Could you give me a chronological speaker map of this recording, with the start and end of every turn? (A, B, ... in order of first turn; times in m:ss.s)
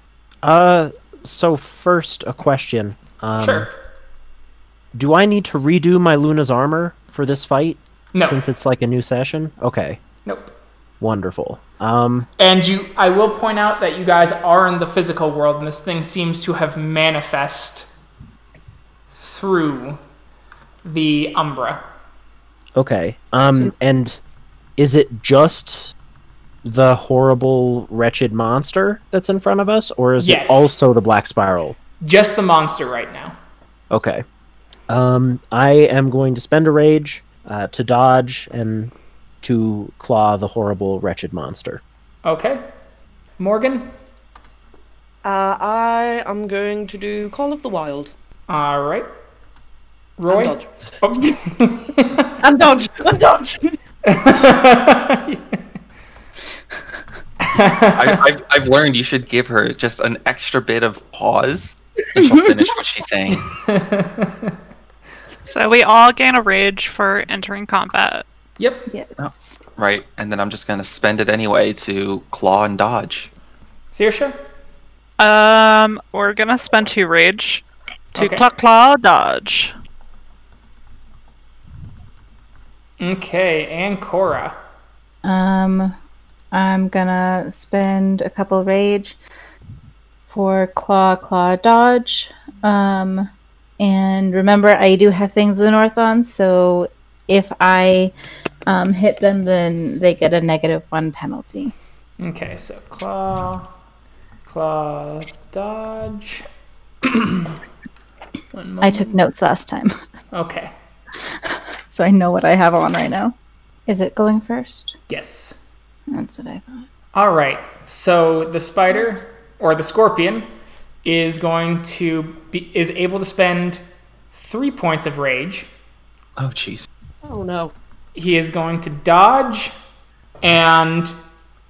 0:00.4-0:03.7 A
0:03.4-0:03.7 B
0:04.9-0:10.0 A
0:08.1-0:08.4 B
0:10.2-0:10.5 B
0:11.0-0:12.3 A
0:12.4-0:17.9 B
0:19.2-0:20.0 B
0:20.8-0:21.8 B
0:22.8-0:24.2 A
0:24.8-0:25.9 A
0:26.6-0:31.8 A
0:30.2-0:30.8 B
0:32.0-0:33.4 B
0:33.9-0:34.2 A
0:34.9-0:41.8 A
0:42.2-0:42.6 B
0:43.4-0:43.9 B
0:45.2-0:48.1 C
0:48.5-0:49.1 B
0:50.2-0:52.4 B
0:50.3-0:50.7 C
0:52.4-0:53.8 C
0:54.0-0:55.6 B
0:57.4-0:58.2 B
0:57.9-1:03.4 D
1:03.5-1:04.5 B
1:05.4-1:08.2 E
1:08.6-1:08.9 B
1:08.9-1:09.6 F
1:09.2-1:13.3 D
1:13.9-1:14.4 B
1:15.2-1:19.7 E
1:18.2-1:18.4 B
1:23.0-1:24.6 B
1:25.2-1:25.9 F
1:26.5-1:29.2 F
1:30.3-1:33.3 F
1:33.8-1:38.1 F
1:38.7-1:41.7 F
1:42.2-1:43.7 B
1:44.4-1:46.4 B
1:47.0-1:47.6 B
1:48.5-1:49.3 B
1:48.8-1:49.9 F
1:50.3-1:50.7 B
1:51.3-1:53.3 F
1:53.9-1:54.9 F
1:55.1-1:55.6 B
1:56.1-1:56.8 F
1:57.1-2:00.5 B
2:01.0-2:03.8 B
2:04.3-2:05.7 B
2:06.4-2:06.9 D
2:07.2-2:07.7 C
2:08.1-2:09.7 B
2:10.4-2:11.1 B